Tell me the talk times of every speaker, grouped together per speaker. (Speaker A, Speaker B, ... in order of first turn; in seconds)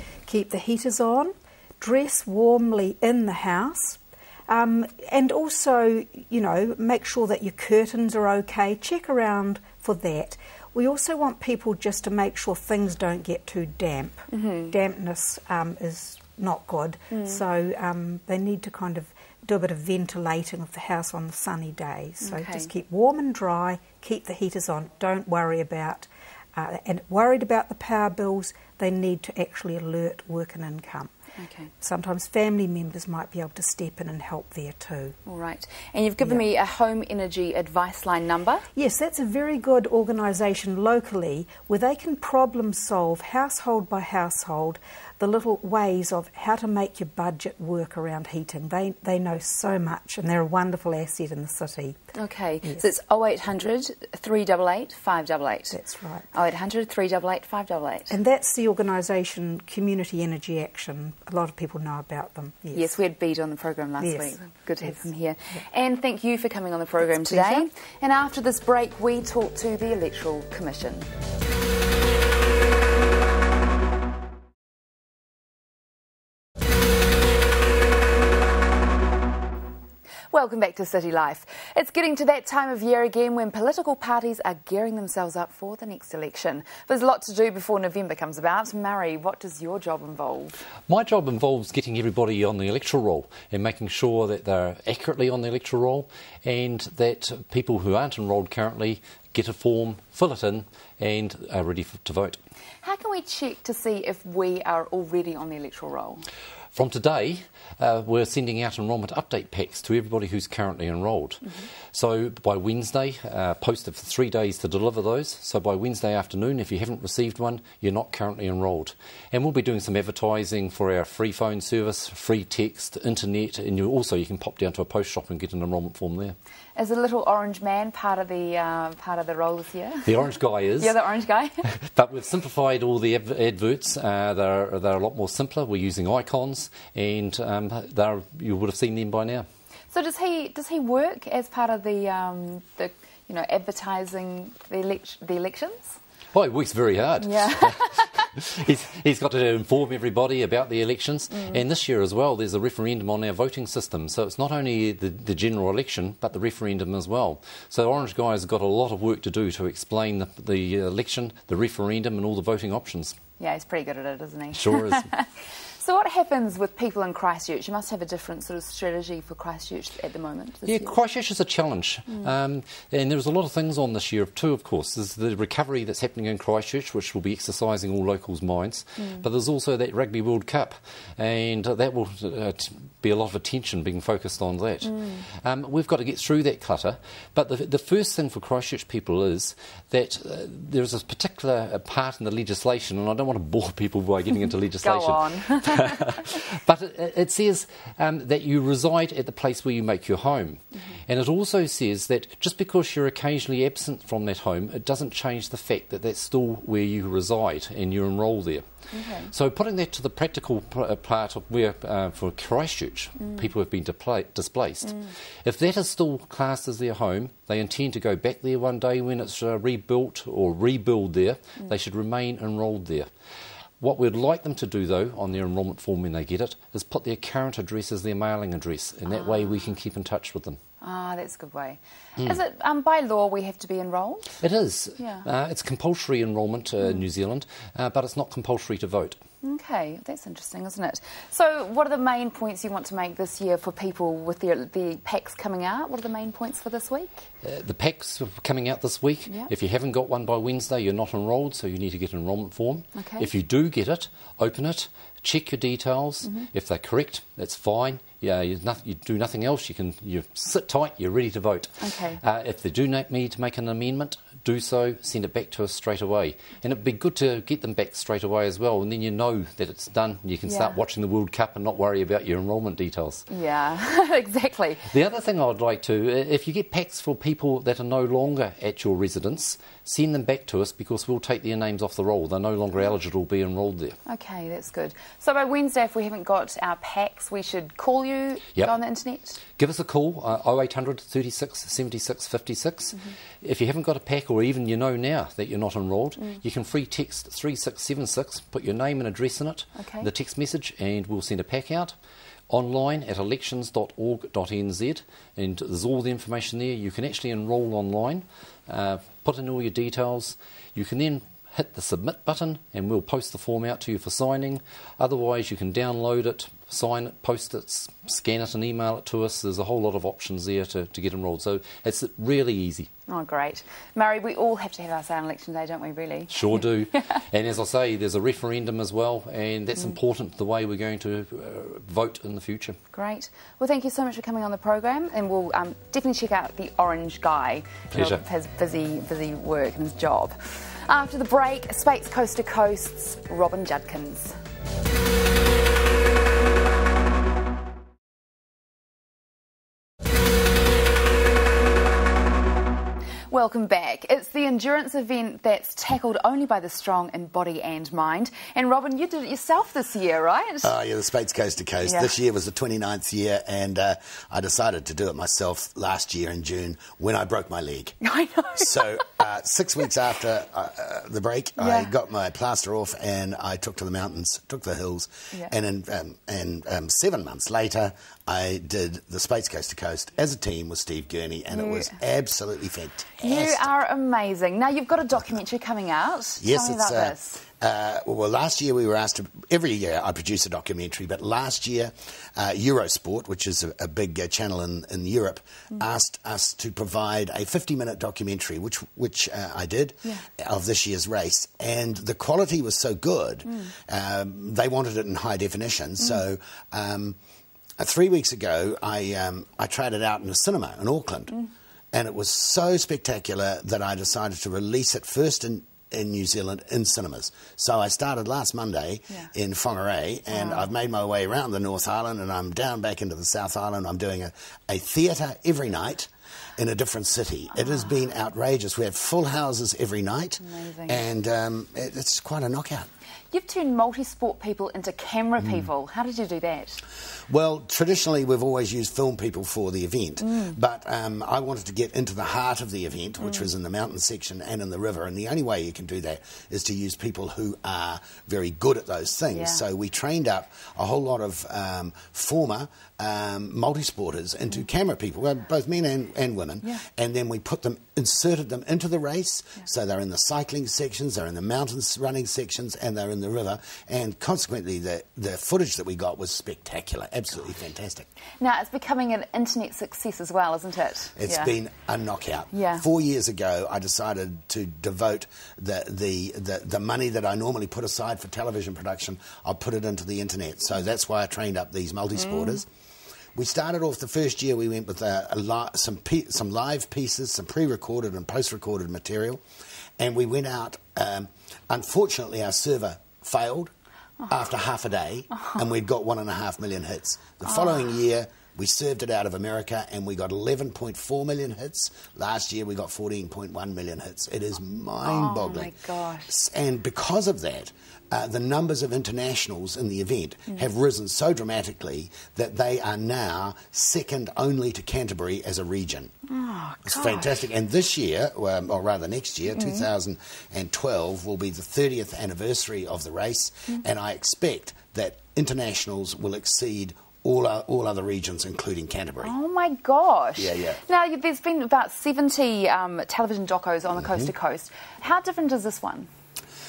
Speaker A: 0.3-31.1, 31.8-35.2, 38.7-52.0, 55.7-56.2, 58.1-63.0, 64.0-65.1, 67.0-67.7
Speaker B: 14.3-14.7, 17.1-17.4, 22.2-22.7, 31.4-31.7, 35.2-38.6, 52.1-55.8, 56.3-58.1, 62.7-71.1, 80.3-90.5, 102.8-106.2, 126.8-131.6, 139.9-146.0, 147.2-148.1, 151.3-151.6, 163.4-170.9, 179.0-179.2, 184.8-185.2, 194.8-196.4, 208.9-209.3, 213.2-213.4, 229.1-229.7, 230.8-234.3, 235.0-235.2, 239.4-247.2, 252.9-253.3, 261.8-262.2, 270.4-270.8, 273.3-274.8, 284.1-289.4, 299.8-300.1, 323.1-326.6, 332.9-344.3, 353.3-360.7, 361.8-362.1, 368.0-368.7, 371.6-371.9, 381.5-382.0, 383.2-387.4, 403.4-403.7, 420.3-420.7, 427.6-427.9, 430.4-431.0, 433.3-436.8, 440.2-440.6, 443.2-443.5, 449.3-449.6, 468.4-471.5, 472.5-472.8, 482.1-482.6, 495.3-495.6, 497.4-498.0, 505.0-506.3, 516.3-517.3, 519.5-519.9, 529.2-536.1
Speaker C: 90.9-102.4, 106.7-126.3, 130.1-131.0, 131.8-139.4, 146.3-163.2, 164.6-165.1, 170.6-208.7, 209.3-223.1, 223.8-230.6, 234.4-239.2, 247.4-273.2, 274.9-284.0, 289.5-301.9, 302.5-322.9, 326.3-332.8, 337.9-338.2
Speaker D: 360.6-367.9, 368.5-383.7, 386.4-407.2, 407.8-411.3, 411.9-432.9, 435.4-435.7, 437.3-468.1, 471.1-482.7, 483.3-489.4, 490.0-493.7, 494.3-505.7, 506.3-516.1, 516.9-529.3, 530.4-530.8, 533.9-534.3